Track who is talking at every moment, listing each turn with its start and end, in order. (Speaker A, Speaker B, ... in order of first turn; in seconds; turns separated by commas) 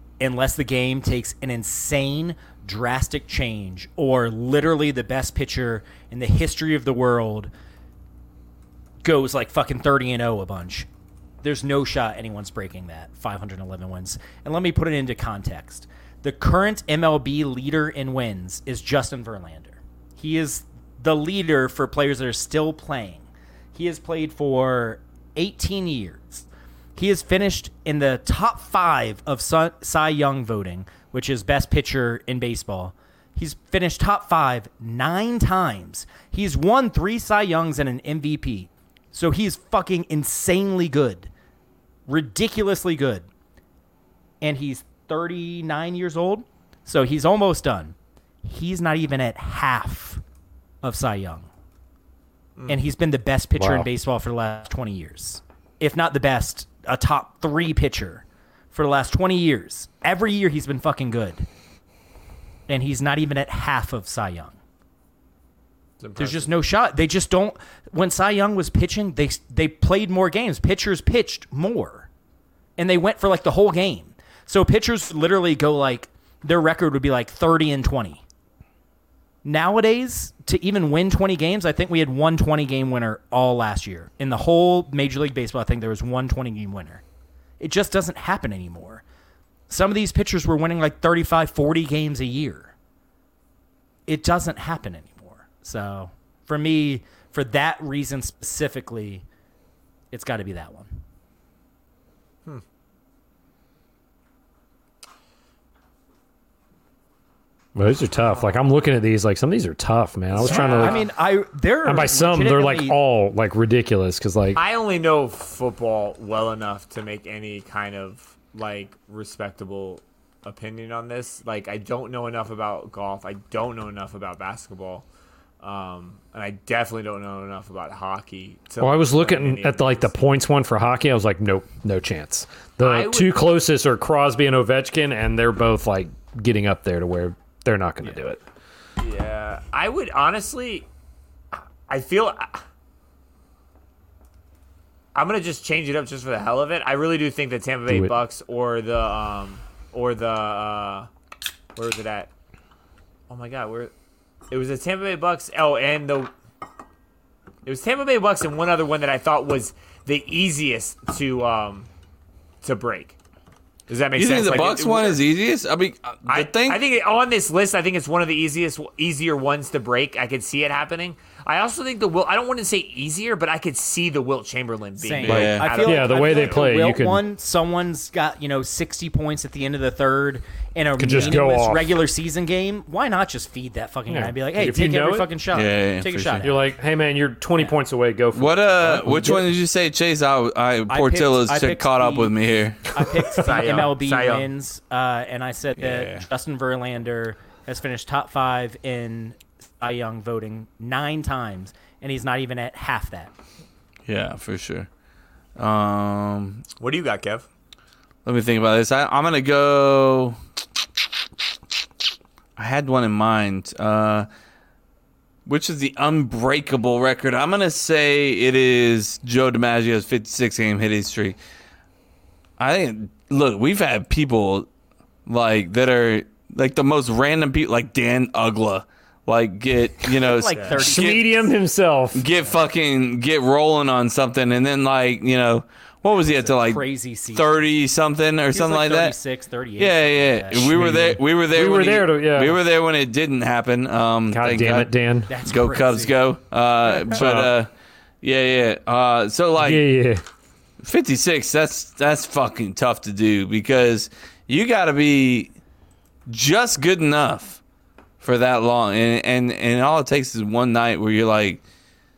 Speaker A: 0.2-7.5, Speaker A: 9.0-10.9, Speaker A: 11.4-41.3, Speaker A: 42.1-43.2, Speaker A: 44.4-50.2, Speaker A: 50.8-51.5, Speaker A: 52.7-61.5, Speaker B: 53.6-53.9, Speaker A: 62.7-64.5, Speaker C: 66.0-66.5, Speaker A: 66.2-72.1, Speaker A: 72.8-78.2, Speaker A: 79.4-87.0, Speaker A: 87.6-89.0, Speaker A: 89.7-92.7, Speaker A: 94.1-99.2, Speaker A: 100.1-101.0, Speaker B: 107.8-111.1, Speaker C: 108.3-108.6, Speaker C: 110.3-111.0, Speaker A: 110.4-113.0, Speaker B: 111.8-114.6, Speaker C: 114.5-125.0, Speaker C: 125.6-130.3, Speaker B: 128.8-138.4, Speaker C: 132.8-133.5, Speaker C: 139.0-140.9, Speaker C: 141.9-142.6, Speaker C: 145.1-151.1, Speaker C: 151.8-152.3, Speaker C: 153.3-153.9, Speaker C: 154.5-156.3, Speaker C: 157.6-161.9, Speaker C: 162.6-163.2, Speaker C: 163.9-165.2, Speaker D: 164.1-166.8, Speaker C: 166.2-176.6, Speaker A: 175.0-186.6, Speaker D: 175.2-175.7, Speaker B: 175.3-177.2, Speaker B: 181.0-181.9, Speaker B: 184.1-185.3, Speaker D: 185.5-186.5, Speaker B: 186.4-189.5, Speaker D: 188.3-192.9, Speaker A: 190.9-192.3, Speaker A: 192.8-203.3, Speaker C: 193.3-194.5, Speaker D: 195.8-196.2, Speaker D: 204.1-204.9, Speaker D: 205.6-206.6, Speaker C: 206.8-207.4, Speaker D: 208.2-210.4, Speaker D: 212.6-214.3, Speaker D: 215.4-221.4, Speaker D: 222.6-224.7, Speaker D: 225.3-231.2, Speaker A: 230.2-231.5, Speaker B: 230.7-232.2, Speaker D: 232.1-239.1, Speaker A: 236.2-237.7, Speaker A: 238.5-241.1, Speaker D: 239.8-247.7, Speaker B: 240.7-242.6, Speaker B: 244.3-245.3, Speaker A: 245.3-246.2, Speaker B: 247.1-247.5, Speaker D: 248.2-249.8, Speaker B: 249.6-250.2, Speaker D: 250.8-255.5, Speaker D: 256.3-257.6, Speaker D: 258.2-261.6